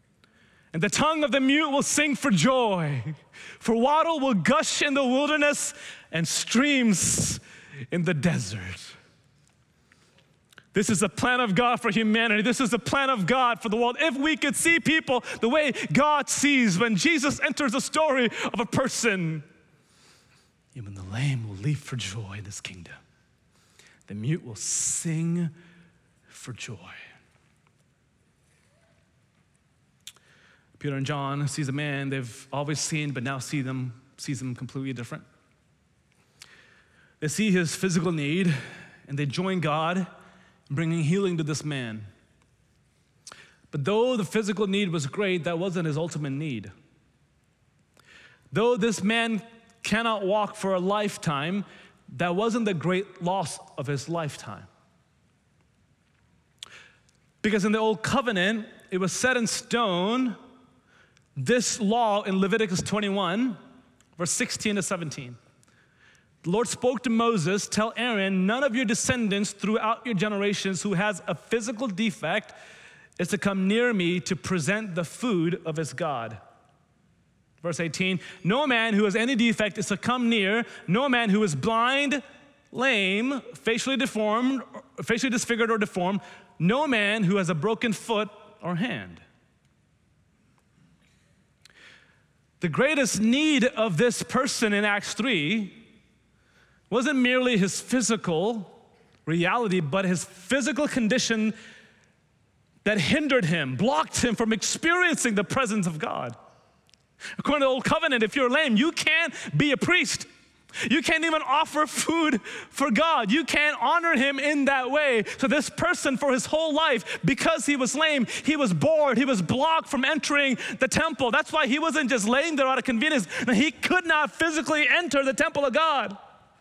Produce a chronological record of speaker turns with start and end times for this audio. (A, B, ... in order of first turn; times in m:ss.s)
0:00.7-0:08.9 A
0:10.7-0:19.4 A
0:20.7-0:23.0 A
0:24.1-0:25.5 A
0:26.3-0:27.0 A
0:30.8-0:35.2 A
0:37.2-0:40.1 A
0:40.7-0:42.1 A
0:43.7-0:46.7 A
0:48.5-0:54.7 A
0:57.4-1:00.4 A
1:01.4-1:03.6 A
1:04.2-1:05.4 A
1:06.4-1:12.5 A
1:13.2-1:16.4 A
1:17.6-1:29.2 A
1:32.6-1:35.8 A
1:36.9-1:41.6 A
1:42.8-1:46.3 A
1:47.4-1:50.3 A
1:50.8-2:06.2 A